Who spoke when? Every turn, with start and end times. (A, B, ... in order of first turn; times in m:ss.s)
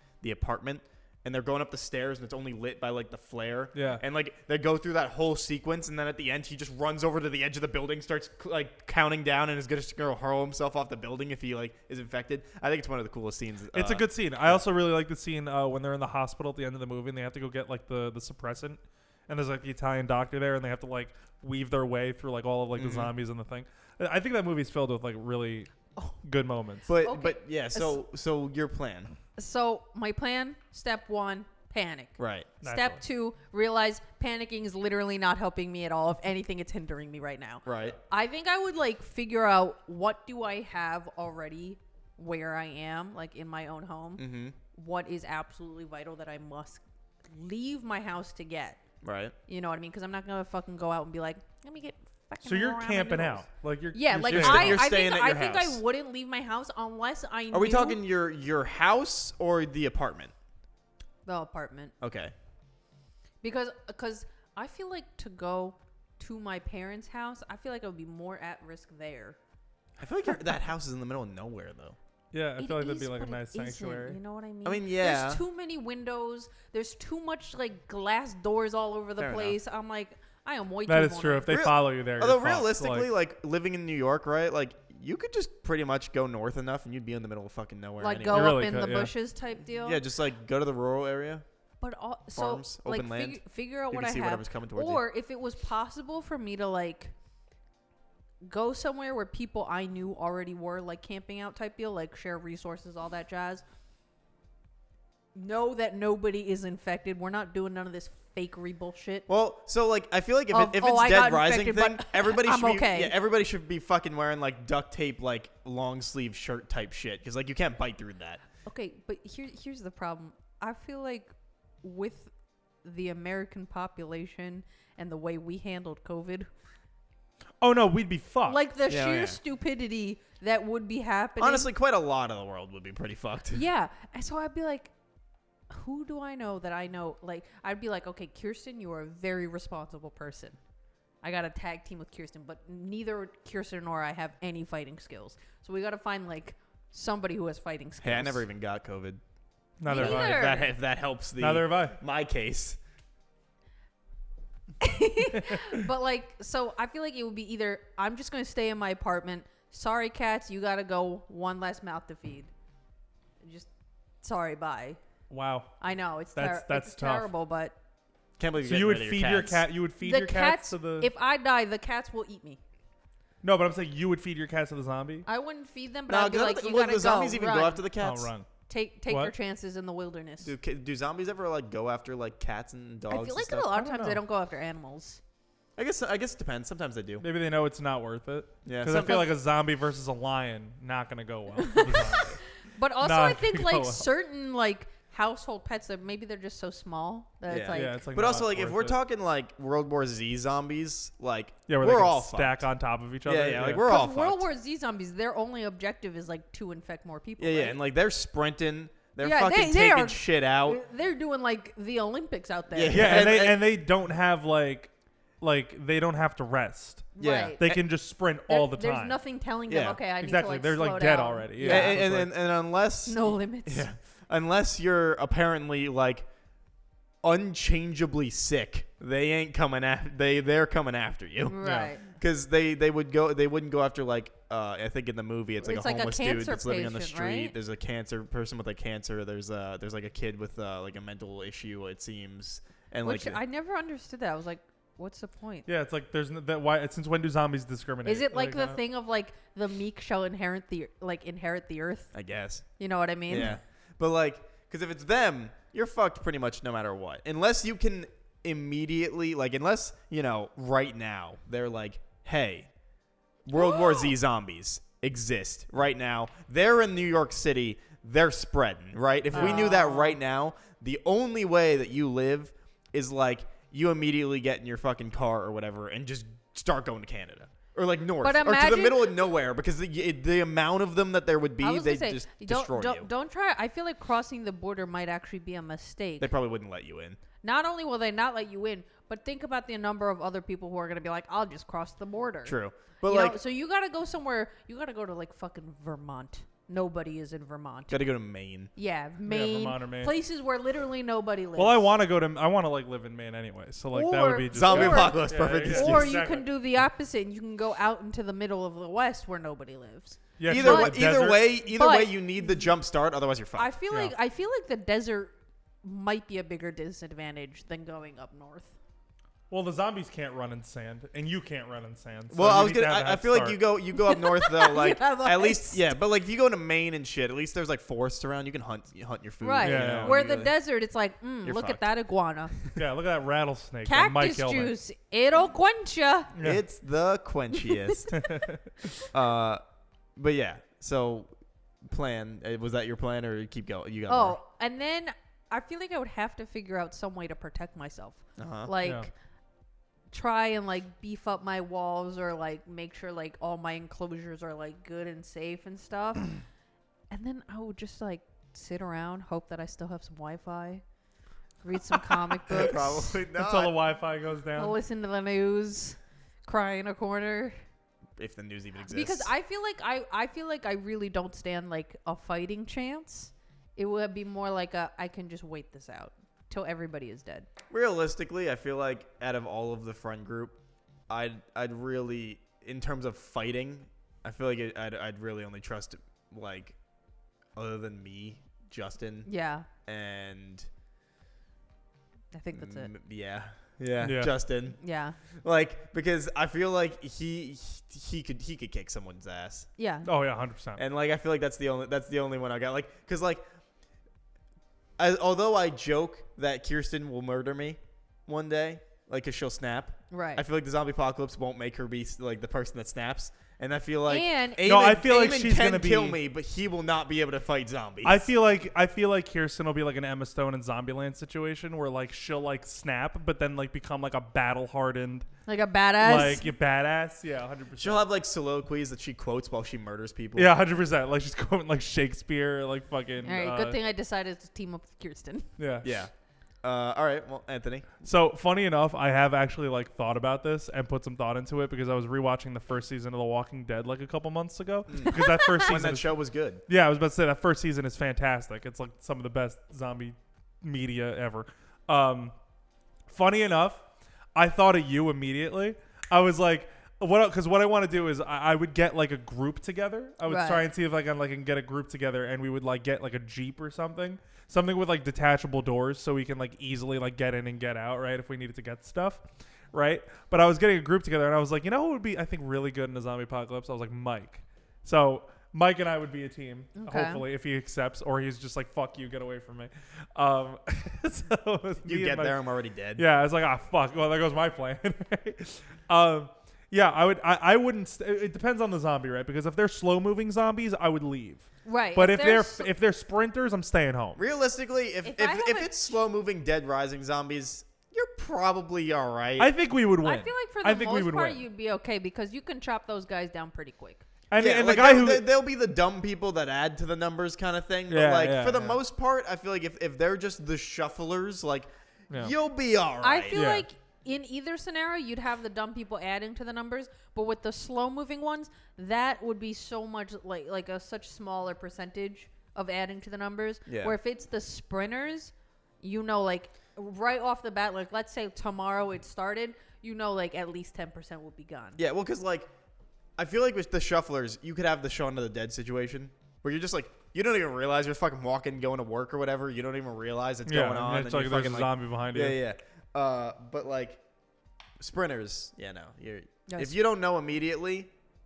0:00.2-0:14.6 A
0:03.7-0:04.0 B
0:13.7-0:26.9 B
0:22.8-0:23.1 A
0:26.9-0:29.1 A
0:27.0-0:28.0 C
0:29.4-0:48.8 C
0:32.2-0:32.6 A
0:32.6-0:33.0 B
0:37.6-0:38.0 A
0:44.2-0:44.6 A
0:49.0-0:49.3 A
0:49.5-0:58.0 C
0:52.4-0:54.8 B
0:54.2-0:55.8 A
0:57.5-1:00.3 A
1:01.2-1:01.9 C
1:02.0-1:02.3 A
1:03.4-1:09.4 C
1:10.0-1:12.0 A
1:12.3-1:14.2 B
1:12.6-1:21.5 C
1:14.6-1:15.4 A
1:19.2-1:19.6 A
1:20.9-1:23.1 B
1:21.5-1:28.6 A
1:28.0-1:30.0 C
1:28.3-1:29.1 B
1:29.8-1:31.4 A
1:31.8-1:37.1 C
1:32.3-1:35.0 A
1:38.4-1:43.6 C
1:45.3-1:49.3 C
1:49.3-1:58.4 A
1:50.5-1:53.1 C
1:58.6-2:02.3 C
2:02.8-2:06.5 C
2:07.6-2:08.6 B
2:08.5-2:11.7 C
2:08.9-2:09.4 A
2:11.4-2:13.6 A
2:13.5-2:14.9 C
2:15.7-2:20.6 C
2:21.2-2:28.4 C
2:28.0-2:29.2 A
2:29.8-2:30.6 B
2:29.8-2:30.7 C
2:29.9-2:32.8 A
2:31.4-2:32.0 B
2:34.8-2:42.5 C
2:35.4-2:35.7 B
2:43.4-2:43.7 C
2:44.2-2:45.0 C
2:45.3-2:45.7 B
2:45.8-2:47.8 C
2:46.4-2:47.3 B
2:48.4-2:49.6 A
2:48.6-2:51.1 B
2:50.0-2:52.6 C
2:53.4-2:55.2 B
2:55.2-2:57.8 C
2:56.1-2:58.3 A
2:58.0-2:58.5 B
2:58.7-3:00.5 C
2:59.1-2:59.3 B
3:00.4-3:03.7 A
3:03.1-3:05.2 C
3:03.7-3:04.2 B
3:05.8-3:07.2 A
3:07.2-3:12.4 B
3:08.6-3:09.3 A
3:11.6-3:18.0 C
3:13.0-3:14.0 B
3:17.5-3:22.6 A
3:17.7-3:19.0 B
3:21.7-3:23.9 B
3:23.2-3:24.5 A
3:23.7-3:27.8 C
3:27.4-3:30.8 A
3:29.2-3:33.3 C
3:32.7-3:33.7 A
3:32.9-3:39.2 B
3:37.1-3:37.6 C
3:37.2-3:37.8 A
3:38.5-3:42.0 C
3:39.7-3:40.0 A
3:40.2-3:42.3 B
3:41.6-3:46.3 A
3:43.0-3:43.9 C
3:47.2-4:03.4 A
3:51.5-3:52.0 C
3:51.6-3:51.9 B
3:55.6-3:57.5 C
4:03.0-4:05.7 C
4:05.6-4:08.8 B
4:08.0-4:12.1 C
4:12.1-4:12.6 A
4:12.8-4:13.6 C
4:13.3-4:22.7 A
4:23.4-4:43.1 A
4:23.5-4:24.1 C
4:29.3-4:29.7 B
4:29.3-4:30.2 C
4:38.2-4:39.1 C
4:41.6-4:46.3 C
4:46.2-4:47.2 A
4:47.4-4:58.1 C
4:52.4-4:53.4 A
4:57.9-4:58.7 A
4:58.8-5:01.9 C
4:59.2-5:00.2 B
5:01.6-5:06.5 B
5:03.9-5:10.9 C
5:04.5-5:06.2 A
5:10.4-5:11.4 B
5:10.4-5:13.7 A
5:11.7-5:12.2 C
5:13.6-5:18.8 C
5:19.5-5:23.6 B
5:22.3-5:30.6 A
5:24.0-5:25.8 C
5:29.4-5:32.6 C
5:29.6-5:30.2 B
5:31.4-5:31.9 A
5:32.7-5:34.7 B
5:33.8-5:36.3 C
5:36.4-5:36.6 B
5:36.4-5:38.2 A
5:38.1-5:38.7 B
5:39.1-5:39.6 A
5:40.2-5:44.4 A
5:44.1-5:49.1 C
5:48.4-5:48.7 A
5:48.8-5:49.1 B
5:50.1-5:56.4 C
5:57.1-6:00.8 C
6:01.6-6:03.2 C
6:02.5-6:03.8 A
6:03.3-6:04.8 B
6:04.6-6:07.6 C
6:08.2-6:09.3 A
6:08.9-6:17.5 C
6:17.7-6:20.6 A
6:21.1-6:26.8 A
6:27.6-6:29.3 A
6:29.2-6:29.7 C
6:29.8-6:30.7 A
6:32.3-6:32.9 C
6:32.5-6:34.8 A
6:34.0-6:34.3 B
6:34.8-6:35.2 C
6:35.4-6:39.7 A
6:39.8-6:40.1 C
6:40.0-6:40.8 B
6:40.8-6:43.4 A
6:45.0-6:58.3 A
6:50.1-6:50.4 C
6:54.1-6:54.7 C
6:54.6-6:56.2 B
6:58.0-7:05.2 B
7:05.5-7:06.4 C
7:06.0-7:08.0 B
7:07.8-7:10.5 A
7:10.4-7:13.8 B
7:13.2-7:15.5 C
7:15.6-7:16.0 B
7:15.8-7:16.1 A
7:16.6-7:18.0 A
7:18.0-7:26.1 B
7:24.9-7:26.6 A
7:25.0-7:25.7 C
7:26.7-7:32.3 B
7:33.1-7:33.8 B
7:34.3-8:02.4 B
7:40.3-7:40.6 C
7:56.7-7:57.2 C
8:01.8-8:03.0 A
8:03.0-8:14.2 B
8:11.6-8:12.7 C
8:14.2-8:19.5 A
8:15.0-8:16.0 C
8:19.4-8:21.4 B
8:20.0-8:24.0 C
8:24.3-8:25.2 B
8:24.4-8:33.4 A
8:27.9-8:28.8 B
8:33.0-8:51.8 C
8:33.3-8:33.6 B
8:43.7-8:44.0 A
8:51.8-8:52.5 A
8:53.2-9:04.0 A
9:00.4-9:02.4 B
9:04.8-9:07.9 A
9:06.5-9:06.8 C